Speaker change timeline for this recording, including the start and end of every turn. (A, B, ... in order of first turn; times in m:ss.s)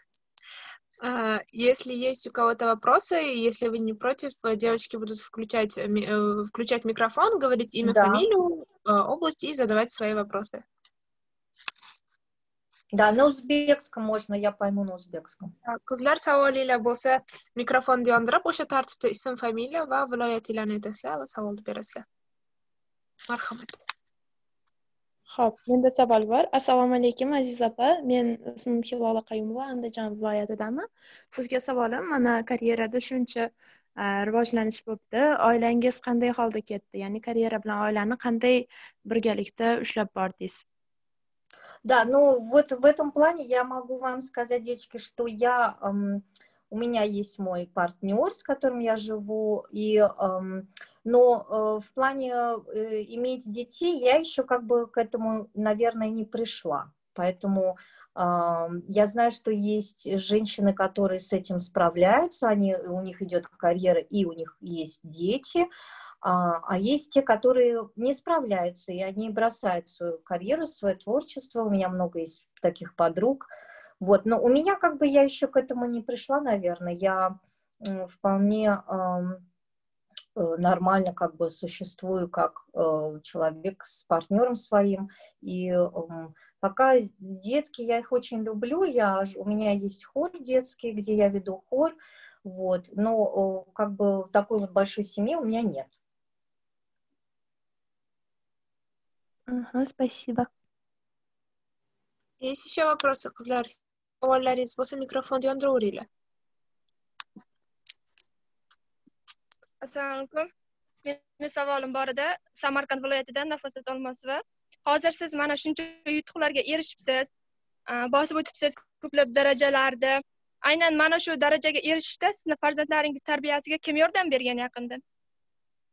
0:01.0-0:10.6 A
0:07.8-0:08.2 B
0:12.9-0:15.5 B
0:15.6-0:22.0 A
0:23.3-0:23.8 A
0:25.3-0:40.6 C
0:41.8-1:05.7 B
1:06.2-1:19.4 B
1:20.4-1:35.9 B
1:39.5-1:40.5 C
1:42.4-1:46.0 A
1:49.8-1:50.5 D
1:51.0-1:57.3 D
1:57.9-2:05.0 D